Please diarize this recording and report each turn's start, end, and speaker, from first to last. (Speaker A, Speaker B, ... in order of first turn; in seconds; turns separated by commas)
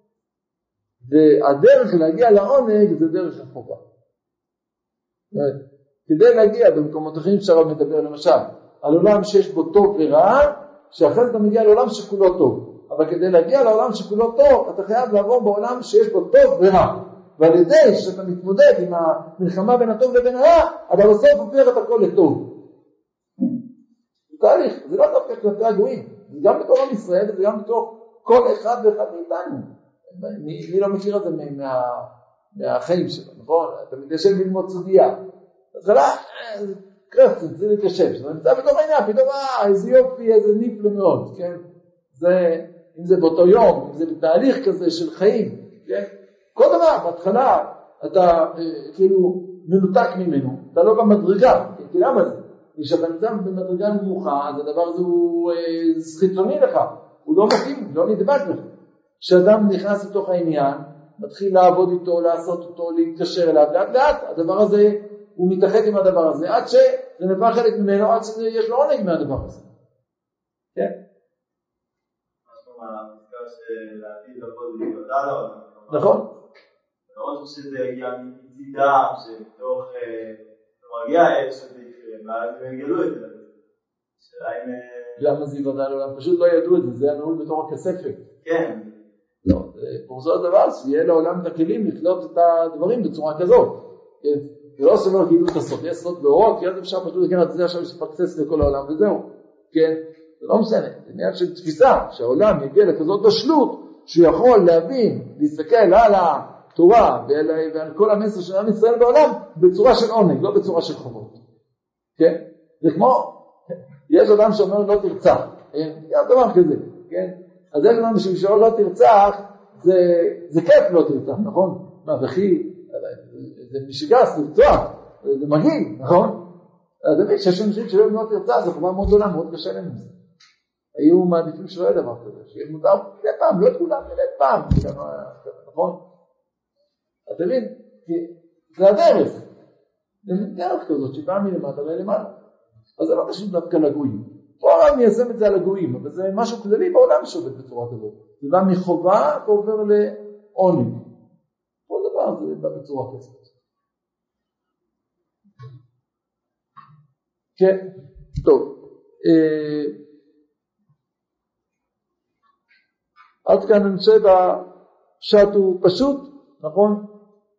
Speaker A: 1.0-3.8, Speaker A: 5.3-22.5, Speaker A: 24.3-35.2, Speaker A: 35.7-58.6, Speaker A: 59.2-69.7, Speaker B: 72.5-76.2, Speaker A: 75.9-76.3, Speaker B: 77.1-83.5, Speaker B: 84.2-85.2, Speaker A: 85.2-88.2, Speaker B: 88.4-89.0, Speaker A: 89.4-111.4, Speaker A: 112.2-113.4, Speaker A: 114.1-126.4, Speaker A: 127.0-130.1, Speaker A: 130.9-136.0, Speaker A: 137.3-139.4, Speaker A: 140.2-142.3, Speaker A: 143.0-151.0, Speaker A: 151.9-153.5, Speaker A: 157.6-157.8, Speaker A: 158.4-159.9, Speaker A: 163.4-164.7, Speaker A: 165.2-167.0